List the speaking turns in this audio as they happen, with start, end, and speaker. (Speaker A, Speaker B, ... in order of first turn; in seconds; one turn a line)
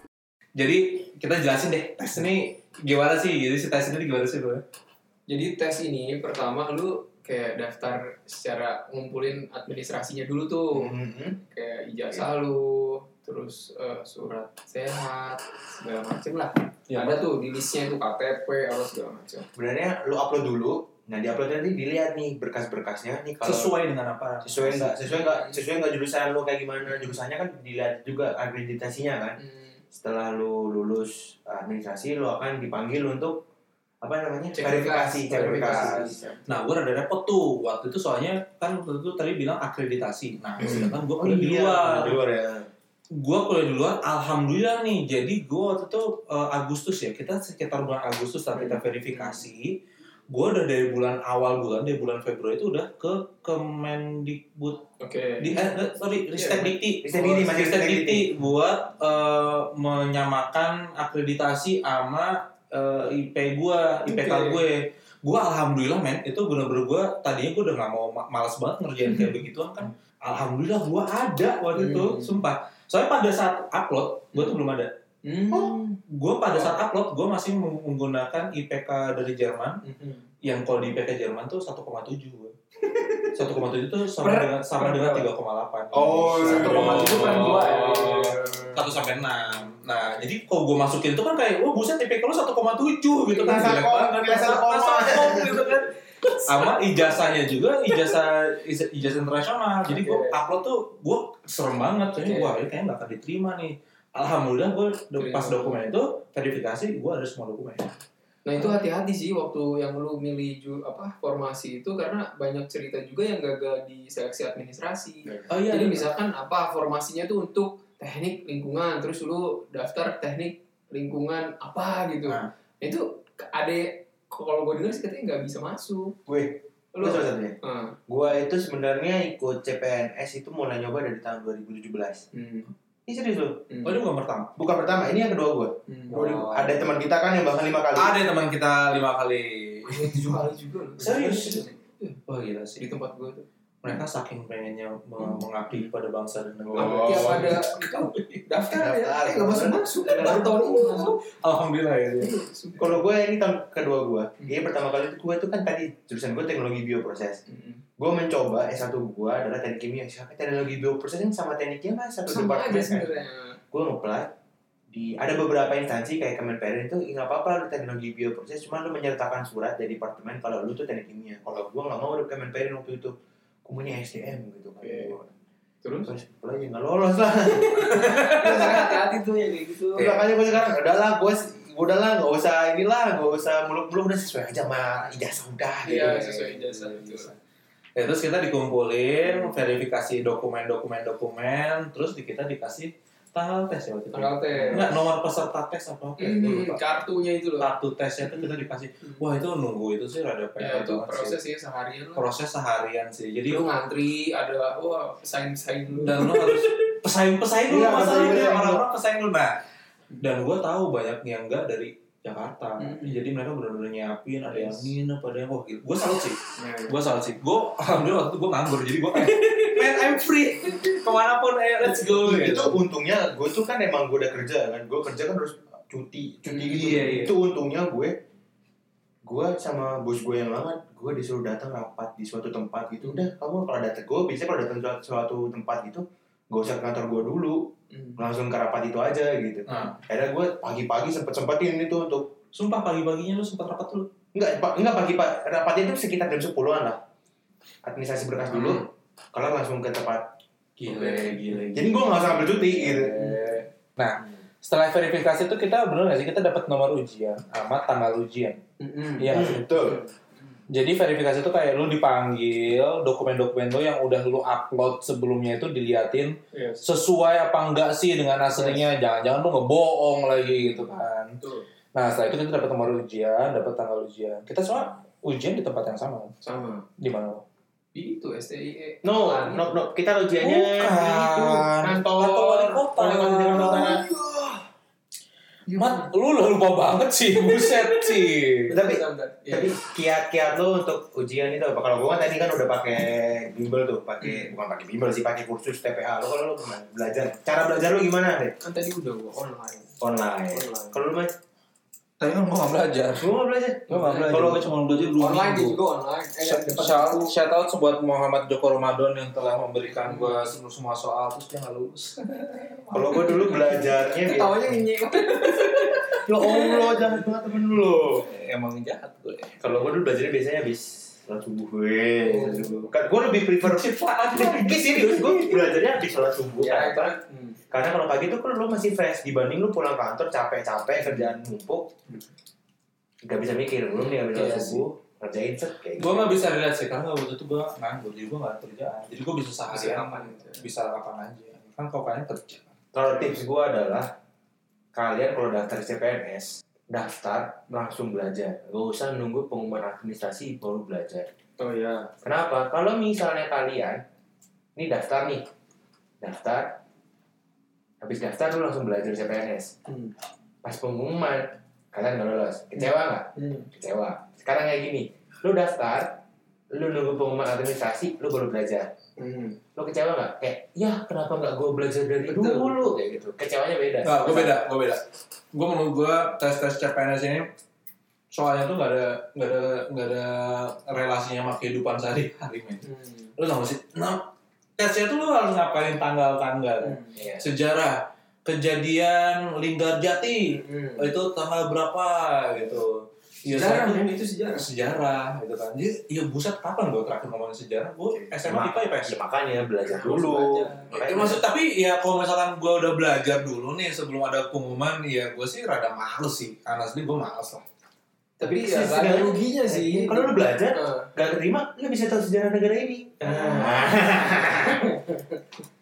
Speaker A: 0.5-4.6
Speaker B: 5.3-19.5
Speaker C: 10.7-11.4
Speaker A: 16.9-17.2
Speaker C: 19.5-23.7
Speaker A: 23.4-24.9
Speaker C: 24.4-29.4
Speaker B: 25.1-25.6
Speaker B: 29.4-29.8
Speaker C: 29.9-33.4
Speaker C: 34.0-36.4
Speaker B: 34.5-36.5
Speaker A: 36.5-42.2
Speaker C: 40.6-42.7
Speaker A: 43.1-49.8
Speaker B: 48.5-49.4
Speaker A: 50.3-54.8
Speaker B: 55.0-55.7
Speaker A: 55.4-74.9
Speaker B: 56.3-56.7
Speaker C: 57.0-58.3
Speaker B: 64.0-64.6
Speaker B: 71.7-72.3
Speaker B: 75.2-76.0
Speaker A: 75.5-79.8
Speaker B: 79.8-80.2
Speaker A: 80.4-82.5
Speaker B: 82.9-83.6
Speaker A: 83.3-95.9
Speaker B: 84.2-85.3
Speaker C: 85.9-88.2
Speaker B: 85.9-88.8
Speaker B: 93.3-93.8
Speaker C: 93.4-95.7
Speaker B: 96.3-97.1
Speaker A: 96.5-108.0
Speaker B: 97.8-98.1
Speaker B: 99.8-100.4
Speaker B: 102.2-102.6
Speaker B: 105.2-105.8
Speaker B: 108.5-126.2
Speaker A: 115.5-116.1
Speaker C: 126.2-127.5
Speaker B: 126.9-128.0
Speaker C: 128.1-132.2
Speaker B: 132.3-132.7
Speaker C: 133.1-133.7
Speaker B: 133.7-134.0
Speaker A: 133.8-134.5
Speaker C: 134.6-138.2
Speaker B: 135.9-136.2
Speaker A: 136.1-136.9
Speaker A: 137.9-140.4
Speaker B: 139.9-142.2
Speaker A: 141.0-141.7
Speaker A: 142.2-142.8
Speaker B: 142.8-144.0
Speaker A: 143.8-148.4
Speaker B: 145.2-145.9
Speaker C: 146.6-147.5
Speaker B: 146.7-151.2
Speaker C: 148.7-150.6
Speaker A: 150.1-152.3
Speaker B: 152.2-153.0
Speaker C: 152.8-157.4
Speaker B: 157.5-157.8
Speaker C: 158.0-163.1
Speaker B: 162.3-163.6
Speaker C: 163.7-164.3
Speaker C: 164.9-175.3
Speaker B: 174.8-175.1
Speaker B: 175.8-176.1
Speaker C: 176.1-178.9
Speaker B: 177.6-180.2
Speaker C: 179.9-186.7
Speaker B: 185.8-187.3
Speaker A: 187.0-187.3
Speaker A: 187.9-196.8
Speaker B: 189.2-189.5
Speaker B: 194.1-195.0
Speaker B: 196.2-197.7
Speaker A: 197.6-201.3
Speaker B: 198.2-199.2
Speaker B: 200.6-202.2
Speaker A: 202.2-203.7
Speaker B: 203.5-206.7
Speaker A: 205.9-209.6
Speaker C: 207.7-208.8
Speaker A: 210.2-222.8
Speaker B: 212.8-213.3
Speaker B: 214.5-214.9
Speaker B: 216.6-217.0
Speaker B: 219.1-220.2
Speaker C: 222.0-228.2
Speaker B: 226.5-226.7
Speaker A: 226.6-227.3
Speaker C: 229.2-242.3
Speaker B: 237.9-238.2
Speaker A: 239.7-240.0
Speaker A: 242.5-244.1
Speaker C: 244.3-247.0
Speaker C: 247.8-250.3
Speaker A: 248.5-248.8
Speaker A: 250.8-251.8
Speaker B: 250.9-253.7
Speaker C: 251.7-253.2
Speaker A: 252.8-258.6
Speaker B: 258.8-260.1
Speaker A: 259.2-259.9
Speaker C: 259.3-260.0
Speaker A: 260.7-271.4
Speaker B: 266.5-266.8
Speaker B: 268.5-268.9
Speaker B: 270.6-270.9
Speaker B: 271.4-271.7
Speaker A: 271.9-276.3
Speaker B: 276.4-276.9
Speaker A: 277.0-277.4
Speaker B: 277.9-279.7
Speaker C: 279.0-284.0
Speaker A: 280.4-284.0
Speaker B: 283.6-284.6
Speaker B: 285.7-286.1
Speaker A: 285.8-288.7
Speaker B: 287.4-289.8
Speaker C: 288.7-298.5
Speaker B: 294.2-294.5
Speaker B: 298.6-300.0
Speaker C: 300.0-301.3
Speaker B: 300.5-301.0
Speaker A: 302.2-305.8
Speaker C: 303.2-304.7
Speaker B: 303.9-307.3
Speaker A: 306.4-312.2
Speaker B: 310.0-310.5
Speaker B: 312.3-317.1
Speaker C: 312.9-314.6
Speaker A: 315.6-316.1
Speaker C: 316.2-318.3
Speaker A: 318.1-319.6
Speaker C: 319.6-327.1
Speaker B: 322.2-322.7
Speaker A: 323.6-325.8
Speaker B: 326.6-327.6
Speaker C: 327.7-331.9
Speaker C: 333.2-336.4
Speaker B: 333.9-334.8
Speaker A: 336.0-342.7
Speaker B: 339.7-340.6
Speaker C: 342.9-344.1
Speaker C: 344.9-351.3
Speaker B: 351.6-352.1
Speaker C: 352.2-354.0
Speaker C: 354.8-355.5
Speaker C: 356.2-356.8
Speaker C: 358.0-359.7
Speaker B: 359.9-360.1
Speaker C: 360.6-366.2
Speaker B: 363.3-363.7
Speaker C: 366.7-368.9
Speaker B: 369.2-369.6
Speaker C: 369.8-374.6
Speaker B: 372.3-372.8
Speaker A: 374.0-377.5
Speaker A: 378.3-382.8
Speaker B: 382.8-383.3
Speaker A: 383.4-399.2
Speaker B: 386.8-387.1
Speaker C: 387.1-387.4
Speaker B: 390.4-391.1
Speaker B: 393.5-394.7
Speaker C: 398.4-401.4
Speaker B: 399.8-400.9
Speaker A: 400.9-407.6
Speaker B: 408.4-411.1
Speaker C: 408.4-414.9
Speaker B: 413.2-415.4